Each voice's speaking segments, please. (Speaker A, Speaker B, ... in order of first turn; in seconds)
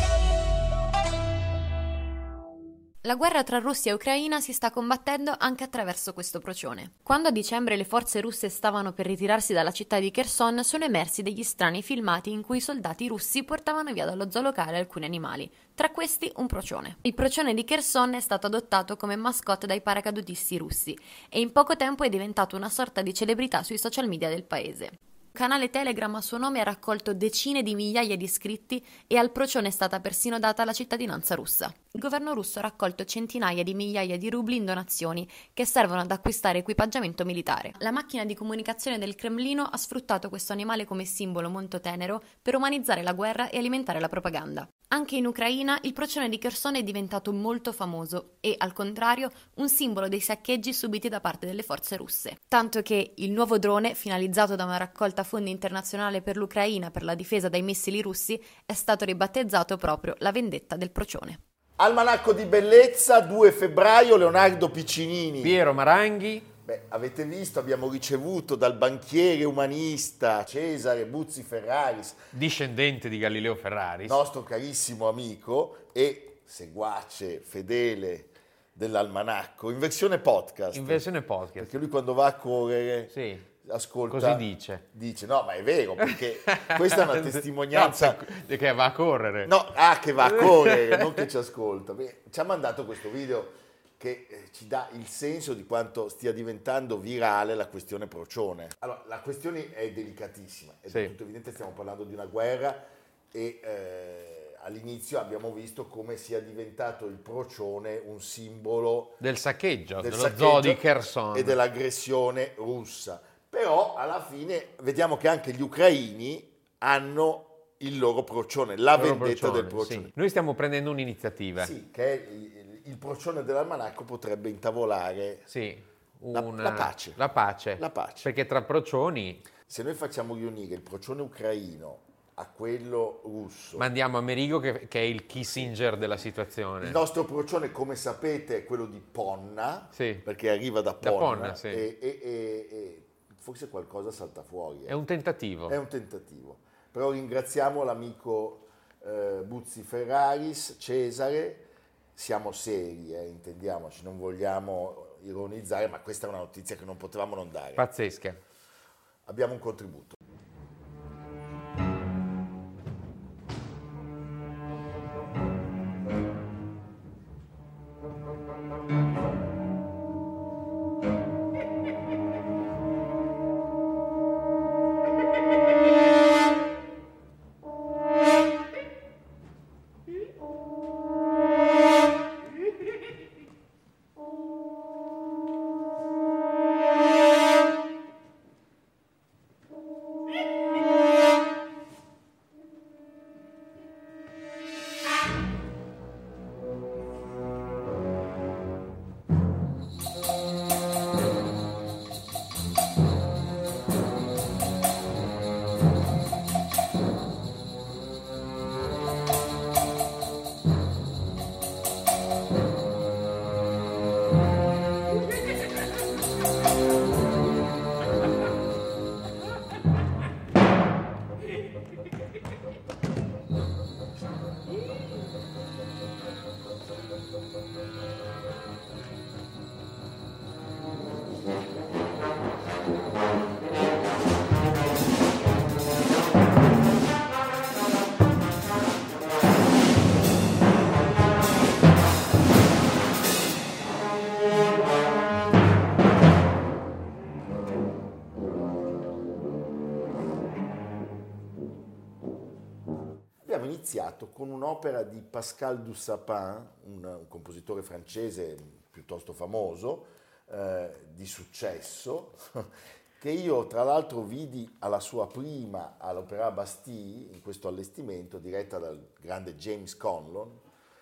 Speaker A: 3.0-61.4
Speaker B: 61.8-65.6, 66.7-72.2, 74.0-88.2, 89.5-109.2, 110.0-120.1, 121.6-125.5, 126.3-127.2, 127.8-128.3, 129.7-133.9, 136.8-145.0, 145.7-157.8, 159.3-160.2, 253.4-262.6, 263.2-270.6
Speaker C: 65.4-66.5, 72.3-74.2, 80.7-81.7, 83.1-83.5, 84.1-84.8, 86.0-89.5, 90.2-91.3, 100.9-101.1, 109.2-111.6, 119.0-121.7, 125.5-129.5, 133.8-137.0, 139.9-140.2, 141.0-141.8, 144.9-145.8, 157.8-158.4